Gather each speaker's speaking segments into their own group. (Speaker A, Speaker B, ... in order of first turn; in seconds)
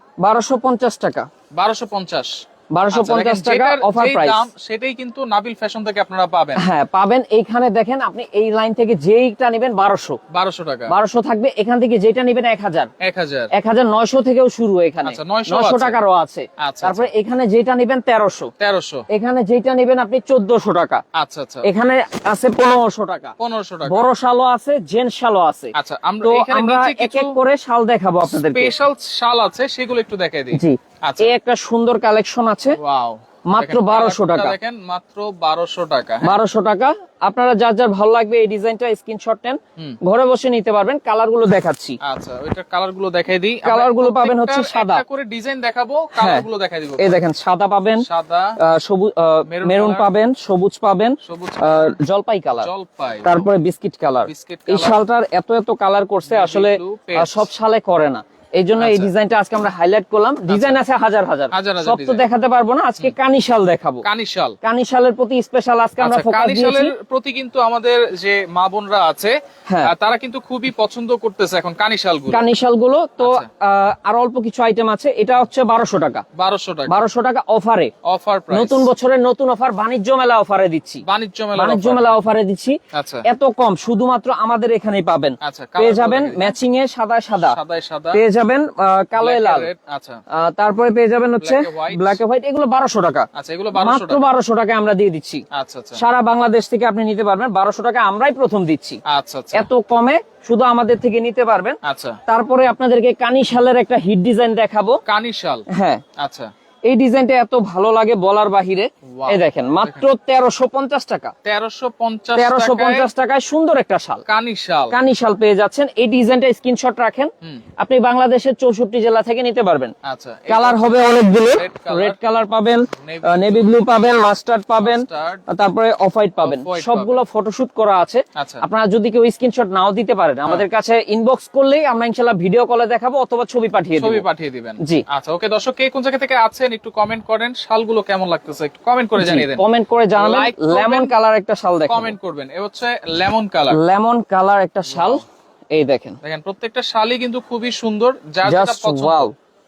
Speaker A: 0.2-1.3, 2.7-4.5, 6.6-10.2, 10.9-12.9, 13.5-18.5, 19.1-21.0, 21.6-28.7, 30.5-32.8, 33.5-34.5, 36.2-42.0, 43.6-45.0, 46.1-46.5, 47.0-48.0, 48.6-52.7, 53.2-64.0, 64.6-66.9, 69.7-69.9, 72.3-76.2, 76.9-77.9, 78.5-81.0, 81.5-87.6, 88.1-89.7, 90.3-95.4, 95.9-99.0, 99.5-105.0, 105.7-106.0, 106.9-111.3, 112.3-114.2, 114.9-119.9, 120.5-134.2, 139.2-142.2, 143.7-146.2, 148.4-149.3
Speaker B: 1.5-6.6, 10.3-10.9, 13.0-13.5, 15.0-16.0, 16.6-17.1, 18.6-19.1, 21.1-21.7, 23.4-24.1, 25.7-27.4, 28.3-31.3, 32.7-36.4, 42.0-47.2, 48.0-48.6, 49.5-50.1, 51.2-52.0, 52.6-53.5, 54.2-55.0, 56.2-57.5, 58.8-59.1, 60.5-60.8, 61.5-62.3, 64.0-64.6, 66.0-72.4, 73.2-73.5, 76.3-77.1, 78.0-78.9, 81.0-82.1, 82.9-83.2, 85.4-86.5, 87.4-88.2, 89.2-90.2, 91.4-92.2, 93.3-94.3, 95.5-96.0, 99.0-99.7, 101.8-102.2, 105.0-105.7, 106.2-106.5, 109.1-110.1, 111.4-113.1, 114.3-115.0, 120.0-122.2, 122.9-123.8, 124.8-125.4, 126.4-127.2, 128.3-128.6, 133.9-139.6, 140.1-141.1, 141.9-143.8, 144.9-145.2, 146.2-149.3